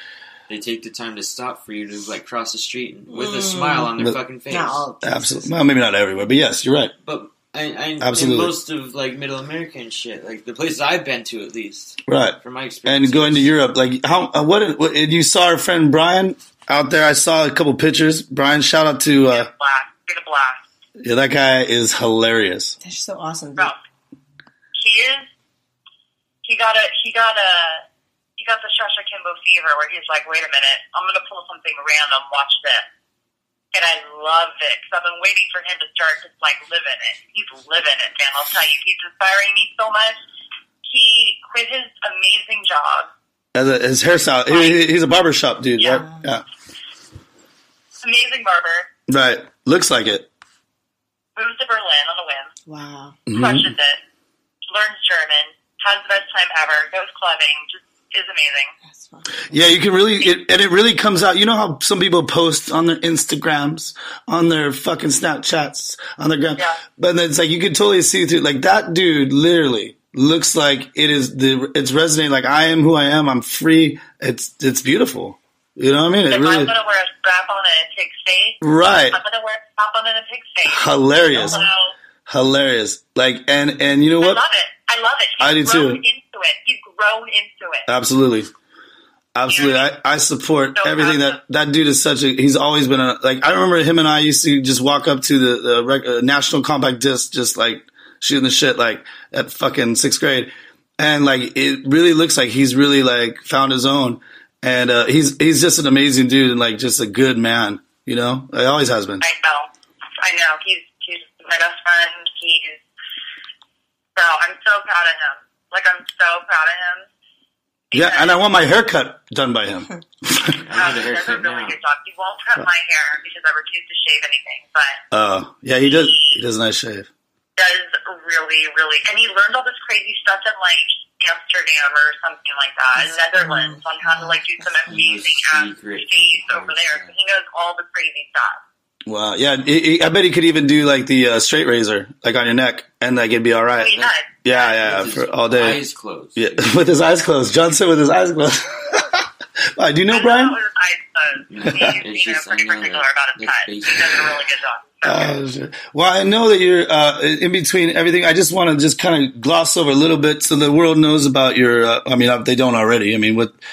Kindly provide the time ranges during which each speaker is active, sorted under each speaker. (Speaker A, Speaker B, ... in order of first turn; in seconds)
Speaker A: 0.5-4.9, 7.0-13.5, 120.4-121.8, 134.9-137.1, 143.9-146.7, 151.5-154.4
Speaker B: 3.1-3.9, 4.5-5.5, 22.8-23.7, 45.8-46.2, 52.7-53.2, 58.9-59.7, 132.9-134.7
Speaker C: 5.0-6.9, 8.0-8.5, 12.1-19.5, 21.0-22.8, 43.5-46.4, 49.1-50.3, 53.3-53.7, 59.5-76.7, 78.6-79.2, 80.7-81.6, 82.3-84.4, 85.4-86.0, 87.9-88.5, 89.3-109.2, 117.9-120.6, 125.1-127.1, 139.1-145.8, 146.4-150.6, 151.7-151.9, 155.0-163.5
Speaker D: 19.3-20.6, 24.8-25.3, 26.4-27.9, 28.4-32.9, 33.7-40.2, 40.9-43.1, 44.5-44.8, 48.0-48.9, 51.4-52.5, 53.3-54.0, 54.7-58.7, 76.3-78.6, 79.1-82.0, 84.2-87.9, 89.5-89.9, 90.8-91.4, 109.2-109.7, 110.2-112.8, 114.2-117.1, 117.9-118.4, 120.7-125.0, 125.8-126.4, 127.6-138.6, 143.8-144.8, 150.1-155.4